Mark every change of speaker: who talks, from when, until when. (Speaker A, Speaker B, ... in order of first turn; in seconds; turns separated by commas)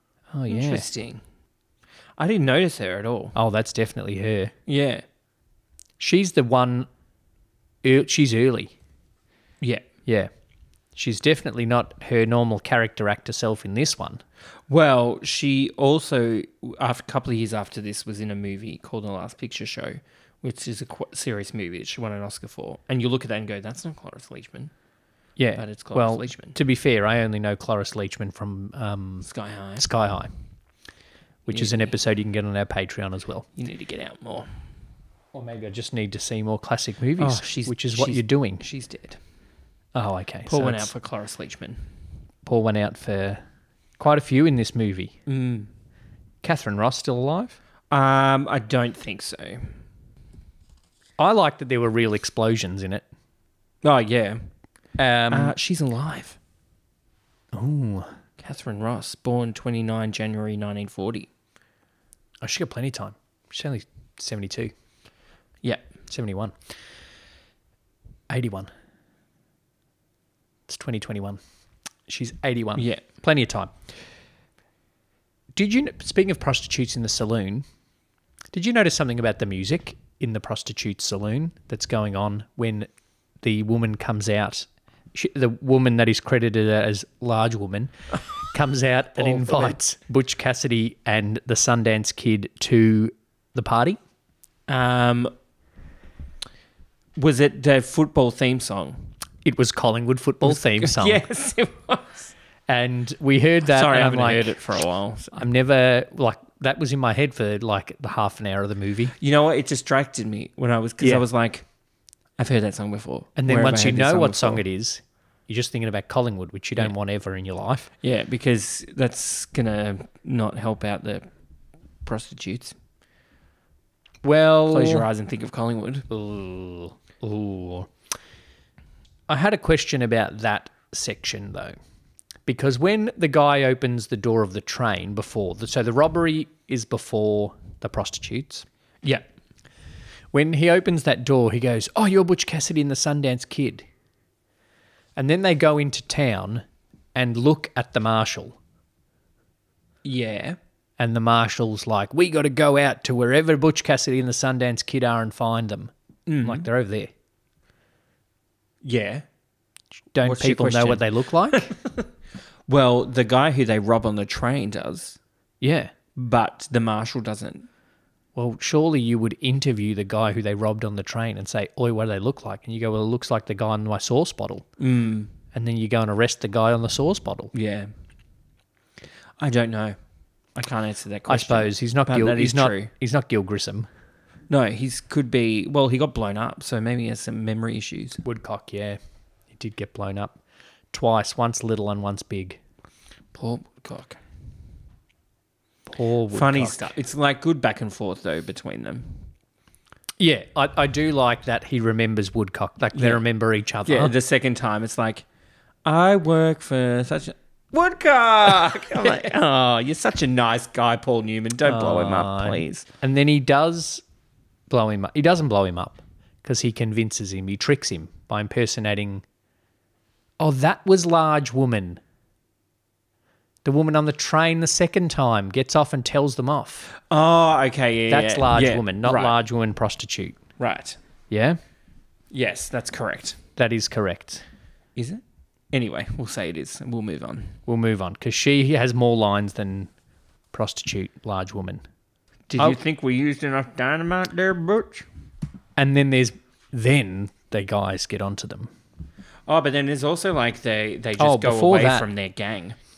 Speaker A: 0.3-0.8, Speaker B: 0.5-1.2, Speaker B: 2.2-3.4, Speaker A: 3.4-4.5, Speaker B: 4.7-5.0, Speaker A: 6.0-6.9, Speaker A: 7.8-8.7, Speaker B: 9.6-9.8, Speaker A: 10.9-14.2, Speaker B: 14.7-24.7, Speaker A: 25.4-30.3, Speaker B: 25.6-26.6, Speaker B: 29.2-29.9, Speaker A: 31.4-33.5, Speaker B: 31.5-31.9, Speaker B: 33.5-34.5, Speaker A: 35.3-38.6, Speaker B: 37.2-39.2, Speaker A: 39.9-40.9, Speaker B: 40.5-41.8, Speaker A: 42.4-43.4, Speaker A: 44.0-45.1, Speaker B: 45.3-45.7, Speaker A: 46.4-47.6, Speaker B: 47.9-49.8, Speaker A: 51.2-53.0, Speaker B: 53.8-54.5, Speaker A: 55.0-55.5, Speaker B: 55.3-56.4, Speaker A: 57.5-58.1, Speaker B: 58.4-61.3, Speaker A: 62.4-64.7, Speaker A: 66.1-66.5, Speaker A: 68.3-68.7, Speaker A: 70.7-71.4, Speaker A: 72.1-73.7, Speaker B: 72.8-73.0, Speaker A: 75.5-77.6, Speaker A: 78.5-82.9, Speaker A: 83.4-87.9, Speaker A: 88.4-94.0, Speaker B: 89.2-89.8, Speaker B: 94.7-95.3, Speaker B: 97.2-99.1, Speaker A: 99.4-101.2, Speaker B: 100.4-102.3, Speaker A: 102.7-104.6, Speaker B: 103.6-105.3, Speaker A: 105.3-109.1, Speaker B: 109.2-111.7, Speaker B: 112.4-114.6, Speaker A: 113.4-117.9, Speaker B: 118.0-121.2, Speaker B: 122.0-122.8, Speaker A: 124.2-125.1, Speaker B: 124.7-126.1, Speaker A: 126.1-127.9, Speaker A: 129.3-131.8, Speaker A: 132.4-138.7, Speaker A: 140.3-143.8, Speaker A: 145.2-148.6, Speaker B: 150.0-150.6, Speaker A: 151.0-157.1, Speaker B: 156.3-156.7, Speaker B: 158.8-159.2, Speaker A: 160.1-161.7, Speaker B: 160.2-162.1, Speaker B: 162.7-165.2, Speaker A: 165.6-165.9, Speaker B: 166.2-167.7, Speaker A: 168.3-174.7, Speaker B: 174.8-175.3, Speaker A: 175.5-177.5, Speaker B: 177.5-177.9, Speaker B: 179.4-180.0, Speaker B: 180.5-182.9, Speaker A: 181.3-183.9, Speaker B: 184.5-188.2, Speaker A: 188.2-189.0, Speaker A: 189.5-190.4, Speaker A: 190.9-192.6, Speaker B: 193.3-194.2, Speaker A: 195.9-196.8, Speaker B: 196.3-199.2, Speaker A: 200.2-204.1, Speaker B: 202.9-203.2, Speaker B: 203.8-205.2, Speaker B: 205.8-212.9, Speaker A: 211.6-214.0, Speaker A: 214.7-219.2, Speaker A: 220.4-222.0, Speaker A: 223.6-226.9, Speaker B: 226.9-229.3, Speaker A: 228.1-230.4, Speaker B: 230.6-231.0, Speaker A: 231.3-231.6, Speaker B: 232.3-233.4, Speaker A: 233.6-234.4, Speaker B: 234.9-237.6, Speaker A: 237.7-239.9, Speaker A: 240.5-241.8, Speaker B: 242.5-245.1, Speaker A: 245.8-248.7, Speaker B: 249.4-252.8, Speaker A: 251.2-252.1